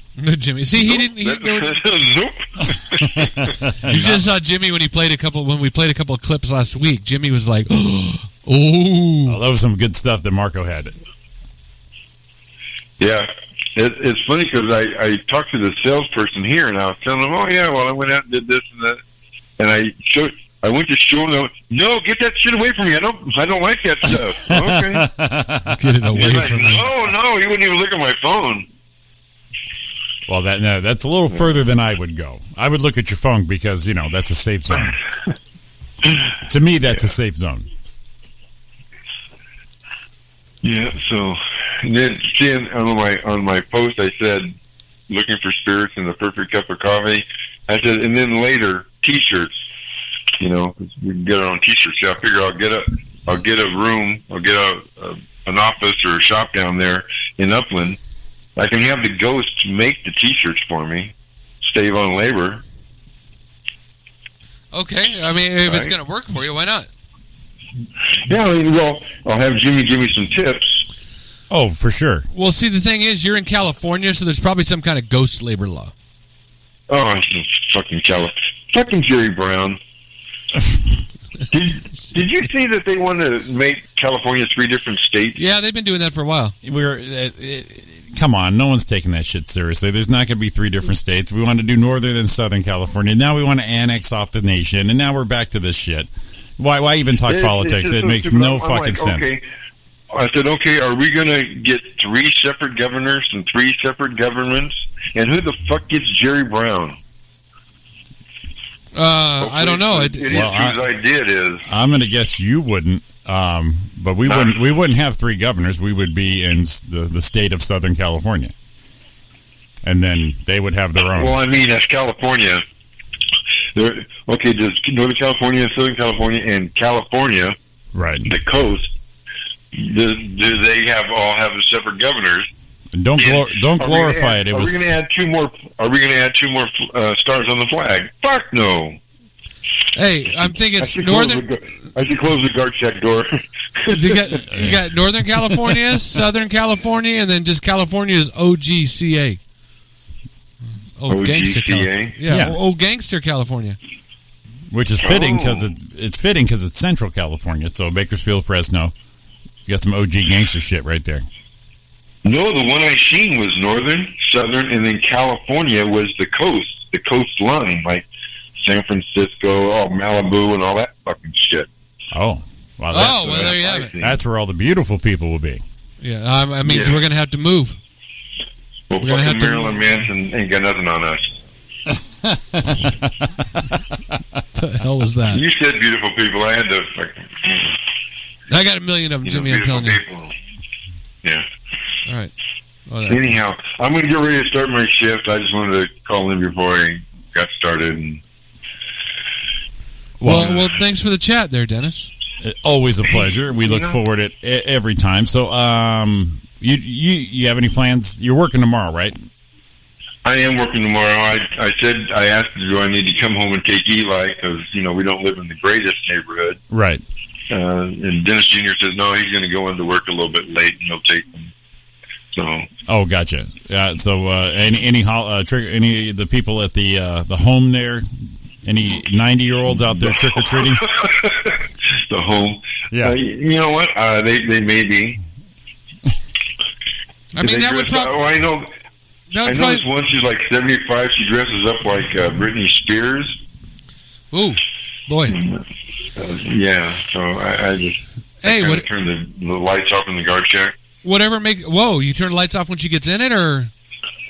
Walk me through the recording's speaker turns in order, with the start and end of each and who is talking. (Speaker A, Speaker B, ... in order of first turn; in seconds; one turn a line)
Speaker A: 0.2-1.8
Speaker B: 0.8-3.5
Speaker C: 3.1-4.3
Speaker A: 3.9-9.4
Speaker C: 9.3-10.9
Speaker B: 13.0-19.0
Speaker B: 19.6-25.0
Speaker C: 24.4-25.9
Speaker A: 25.7-26.9
Speaker B: 26.1-28.7
Speaker C: 30.3-35.0
Speaker C: 36.5-37.7
Speaker B: 40.6-44.5
Speaker B: 45.1-49.5
Speaker B: 50.4-58.0
Speaker B: 58.5-62.6
Speaker A: 64.7-66.9
Speaker B: 65.7-65.9
Speaker B: 68.3-70.8
Speaker C: 71.5-72.3
Speaker A: 72.3-75.9
Speaker B: 76.9-79.8
Speaker B: 81.5-85.4
Speaker A: 85.4-86.5
Speaker C: 86.6-99.3
Speaker B: 97.2-99.4
Speaker B: 100.1-107.0
Speaker A: 108.9-110.5
Speaker B: 109.4-111.6
Speaker C: 110.3-110.8
Speaker C: 111.7-118.5
Speaker B: 114.3-114.5
Speaker C: 119.8-121.4
Speaker B: 121.1-122.6
Speaker B: 123.7-127.5
Speaker C: 127.9-128.3
Speaker B: 128.2-128.9
Speaker B: 129.7-132.5
Speaker C: 132.9-134.9
Speaker B: 133.2-139.0
Speaker A: 139.9-141.4
Speaker B: 140.8-144.4
Speaker A: 143.9-149.4
Speaker C: 144.5-144.9
Speaker A: 151.0-153.8
Speaker B: 151.1-152.1
Speaker C: 152.3-152.6
Speaker C: 154.7-158.9
Speaker B: 155.0-155.7
Speaker C: 159.7-161.2
Speaker B: 162.2-168.1
Speaker B: 168.6-171.7
Speaker C: 172.1-175.6
Speaker A: 172.9-173.9
Speaker B: 173.0-174.2
Speaker A: 176.0-177.8
Speaker B: 176.6-177.0
Speaker B: 178.9-181.3
Speaker A: 179.0-180.0
Speaker C: 182.2-183.0
Speaker A: 184.6-185.4
Speaker B: 185.3-187.7
Speaker A: 188.5-190.0
Speaker B: 189.2-190.3
Speaker A: 192.1-192.3
Speaker A: 192.9-193.3
Speaker B: 193.1-198.2
Speaker C: 200.2-200.6
Speaker A: 200.2-202.1
Speaker B: 200.3-200.6
Speaker C: 202.4-209.2
Speaker B: 203.1-204.0
Speaker B: 210.2-216.6
Speaker C: 216.7-217.0
Speaker B: 217.5-221.5
Speaker B: 222.3-222.7
Speaker C: 222.9-228.1
Speaker C: 228.6-230.8
Speaker B: 230.0-235.2
Speaker A: 237.3-238.1
Speaker B: 237.4-238.7
Speaker A: 239.3-239.8
Speaker B: 239.4-243.4
Speaker A: 244.3-245.4
Speaker B: 245.3-245.6
Speaker B: 246.2-250.7
Speaker A: 248.4-248.8
Speaker A: 251.0-253.7